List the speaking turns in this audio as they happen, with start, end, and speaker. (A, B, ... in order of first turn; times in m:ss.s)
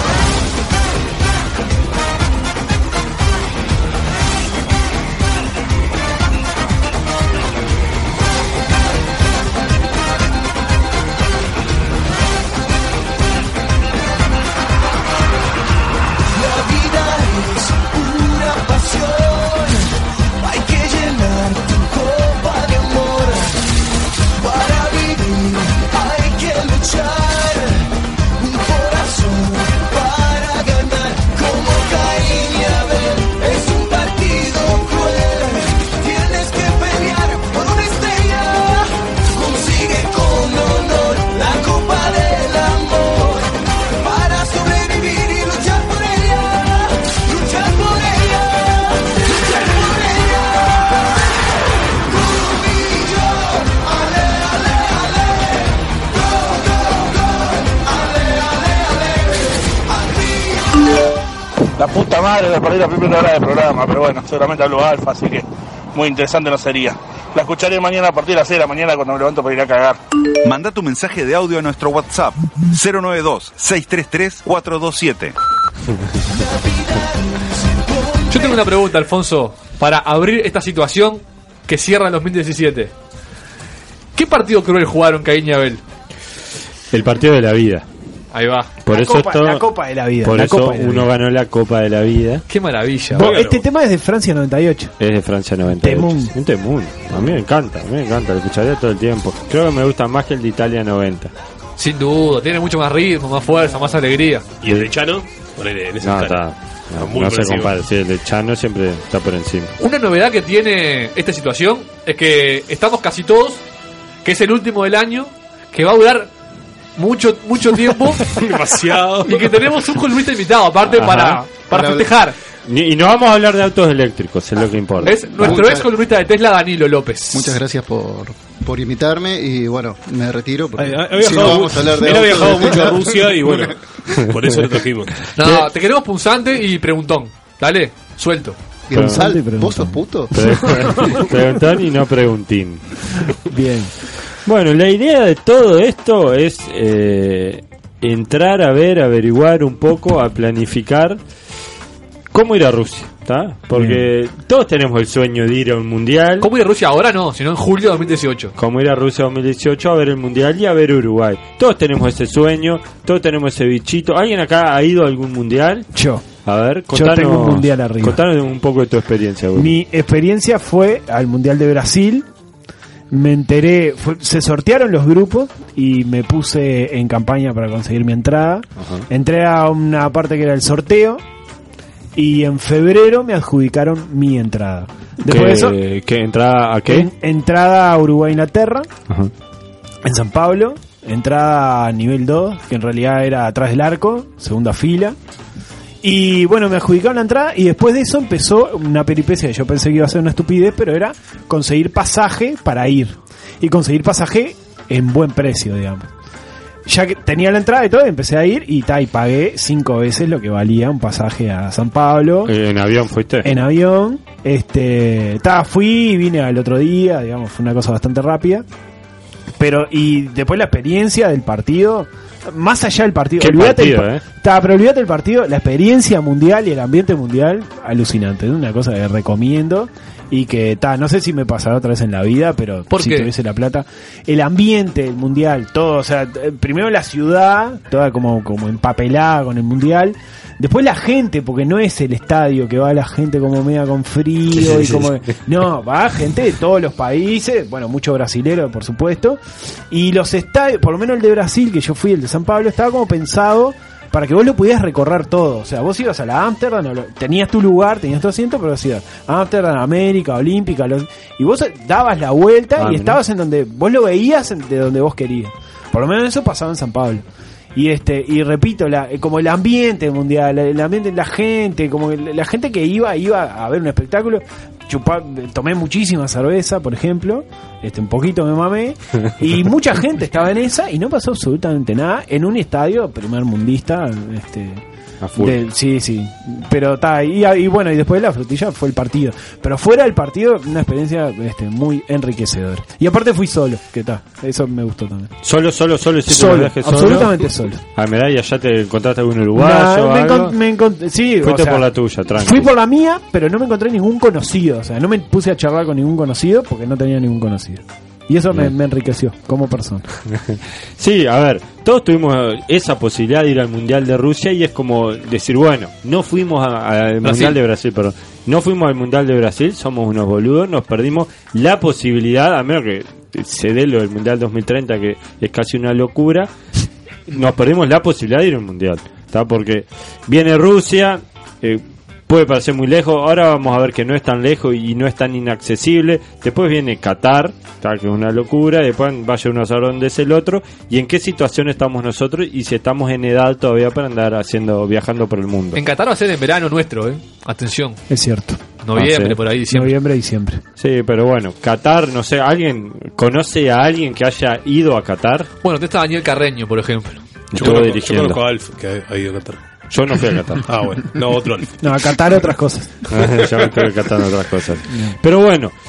0:16.6-0:19.8 A
0:20.4-0:23.6 A
0:24.4-0:27.7 A
0:28.4-0:38.8 A
0:39.3-0:43.4 A
0:44.0-0:50.3 A
0:52.4-0:54.4 A
1:01.8-1:10.0 B
1:10.4-1:15.3 C
1:18.2-1:22.9 D
1:24.1-1:25.8 D
1:26.9-1:27.8 E
1:28.3-1:28.8 D
1:28.8-1:29.6 E
1:28.9-1:31.1 F
1:30.2-1:32.4 E
1:32.5-1:33.4 D
1:33.1-1:34.9 F
1:33.2-1:33.6 G
1:35.0-1:41.3 E
1:35.7-1:36.3 F
1:41.8-1:44.5 D
1:44.6-1:46.4 G
1:46.0-1:49.7 E
1:47.0-1:47.7 G
1:49.8-1:53.6 D
1:54.2-1:56.3 D
1:57.0-1:58.3 D
1:58.2-1:59.8 G
1:59.2-2:02.4 D
2:01.0-2:01.4 E
2:01.7-2:02.1 H
2:02.7-2:05.2 E
2:05.0-2:07.6 D
2:05.4-2:05.9 H
2:07.3-2:13.7 H
2:10.8-2:15.3 G
2:15.4-2:18.6 D
2:18.9-2:20.8 H
2:18.9-2:19.2 E
2:18.9-2:20.0 F
2:20.3-2:22.8 E
2:23.5-2:23.9 F
2:24.4-2:31.1 E
2:32.3-2:36.5 E
2:33.8-2:34.0 F
2:36.4-2:38.5 D
2:38.6-2:45.8 E
2:45.9-2:46.2 F
2:46.4-2:49.7 E
2:46.9-2:48.2 F
2:49.6-2:52.2 F
2:53.1-3:01.2 F
2:58.8-2:59.0 E
3:02.2-3:05.8 F
3:05.2-3:07.1 E
3:06.9-3:08.9 F
3:10.0-3:15.2 F
3:16.0-3:26.1 F
3:26.8-3:32.5 F
3:32.4-3:33.6 E
3:33.4-3:38.6 F
3:39.6-4:09.4 F
3:43.4-3:44.2 E
3:52.9-3:53.3 D
4:04.7-4:05.0 E
4:09.9-4:44.8 F
4:22.8-4:23.2 E
4:45.2-4:45.6 E
4:45.4-4:55.3 F
4:55.4-4:57.3 E
4:56.3-4:57.8 F
4:57.9-5:00.5 E
4:59.5-5:10.1 F
5:01.4-5:02.6 E
5:11.0-5:26.4 E
5:17.2-5:17.6 D
5:27.3-5:31.8 E
5:32.3-5:45.8 E
5:45.7-5:48.0 D
5:48.1-5:48.6 F
5:48.8-5:50.0 D
5:48.9-5:49.4 E
5:49.7-5:50.6 F
5:50.8-5:55.5 E
5:55.6-5:57.2 D
5:57.5-5:58.4 E
5:57.6-5:59.6 G
5:59.9-6:00.6 E
6:00.6-6:01.7 G
6:01.8-6:02.9 F
6:03.1-6:05.7 E